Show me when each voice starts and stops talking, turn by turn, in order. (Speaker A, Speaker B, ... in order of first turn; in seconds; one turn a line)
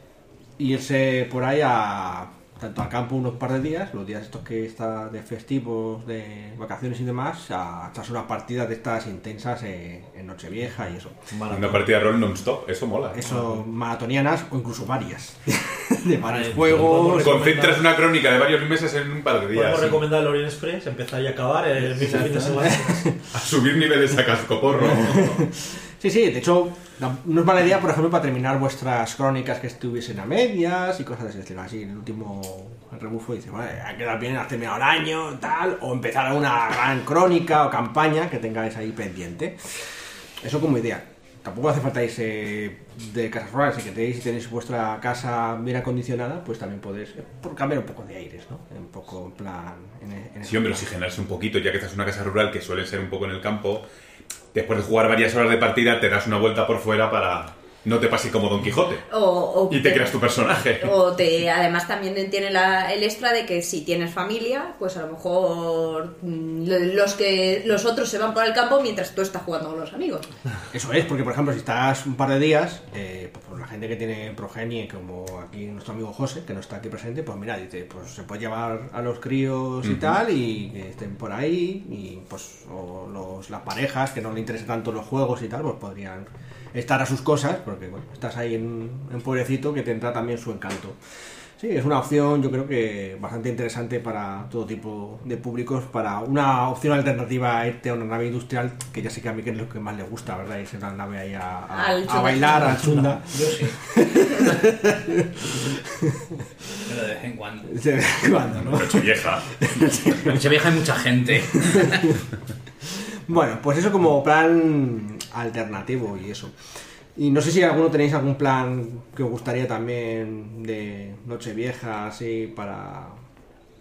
Speaker A: 0.6-11.3
Speaker B: 11.3-11.9
Speaker C: 11.5-13.2
Speaker A: 13.1-17.4
Speaker B: 13.2-13.6
Speaker B: 16.2-17.9
Speaker C: 17.0-20.0
Speaker B: 19.5-23.1
Speaker A: 22.1-23.1
Speaker C: 23.3-25.3
Speaker A: 24.8-50.8
Speaker C: 50.4-53.9
Speaker C: 54.5-59.0
Speaker D: 59.1-60.2
Speaker C: 59.7-60.9
Speaker D: 60.8-70.3
Speaker A: 70.7-91.0
Speaker C: 79.8-80.2
Speaker A: 91.6-106.4
Speaker D: 101.7-103.0
Speaker E: 103.3-103.8
Speaker E: 106.8-107.8
Speaker A: 107.7-110.4
Speaker C: 108.6-109.5
Speaker E: 110.2-112.2
Speaker A: 111.5-112.2
Speaker A: 112.8-116.6
Speaker A: 117.2-123.2